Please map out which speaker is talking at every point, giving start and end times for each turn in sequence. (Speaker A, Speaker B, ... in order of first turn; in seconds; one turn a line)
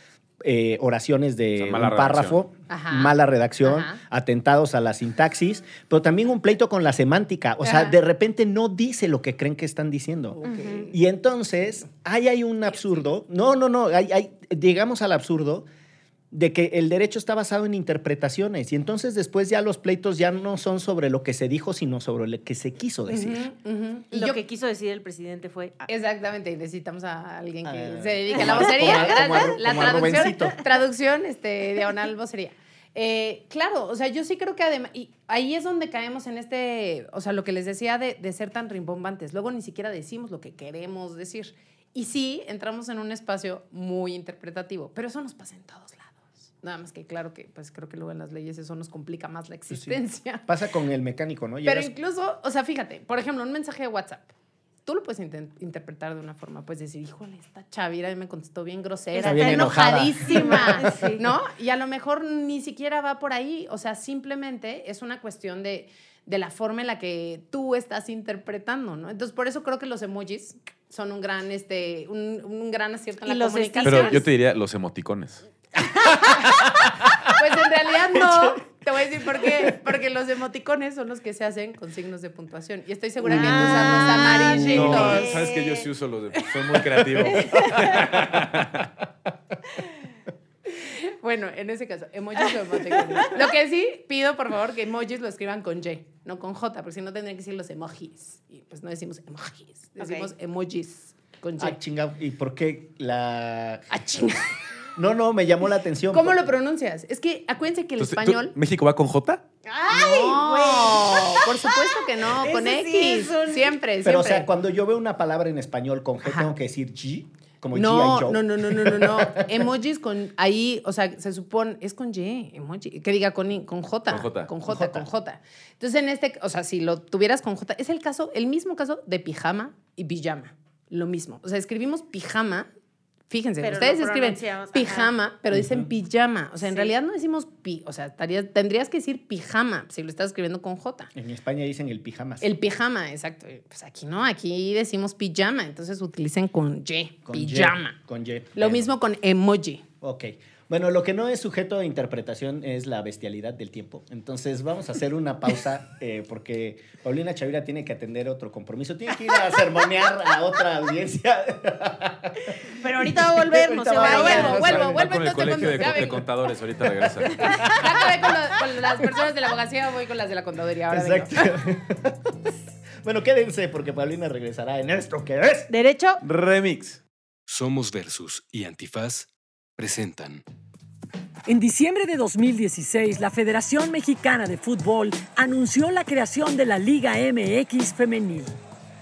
Speaker A: 0.4-15.7
Speaker B: 1.6-2.4
Speaker C: 2.7-4.0
Speaker C: 7.6-8.0
Speaker C: 10.4-10.9
Speaker D: 10.5-10.8
Speaker A: 16.3-23.4
Speaker C: 23.1-24.4
Speaker D: 24.1-25.9
Speaker C: 25.9-50.4
Speaker A: 27.6-30.6
Speaker D: 28.5-30.4
Speaker A: 49.7-51.9
Speaker C: 51.6-74.2
Speaker D: 59.1-61.2
Speaker A: 59.2-61.0
Speaker D: 73.2-74.2
Speaker B: 73.8-75.5
Speaker D: 75.8-76.3
Speaker C: 77.2-85.4
Speaker A: 78.1-78.7
Speaker A: 79.3-79.7
Speaker D: 83.2-85.8
Speaker A: 83.3-84.1
Speaker B: 84.5-88.9
Speaker D: 87.4-87.9
Speaker C: 90.7-101.8
Speaker D: 100.0-100.3
Speaker A: 101.6-103.9
Speaker C: 103.9-104.5
Speaker A: 105.0-106.5
Speaker C: 106.1-108.5
Speaker B: 108.0-109.4
Speaker D: 109.7-113.8
Speaker C: 109.9-114.5
Speaker A: 114.0-119.5
Speaker C: 116.2-116.5
Speaker C: 117.7-132.7
Speaker B: 124.1-124.5
Speaker A: 124.6-125.0
Speaker C: 133.3-141.1
Speaker D: 133.6-135.1
Speaker A: 135.5-135.9
Speaker D: 136.7-136.9
Speaker A: 141.1-142.5
Speaker C: 142.4-147.9
Speaker A: 147.2-148.9
Speaker C: 148.5-149.8
Speaker A: 150.0-165.0
Speaker D: 162.8-164.6
Speaker C: 163.9-166.2
Speaker B: 164.3-167.4
Speaker A: 167.4-167.9
Speaker C: 167.6-171.4
Speaker A: 170.9-172.5
Speaker A: 173.0-175.7
Speaker D: 175.7-176.2
Speaker B: 176.2-177.0
Speaker E: 177.5-180.4
Speaker F: 181.5-188.5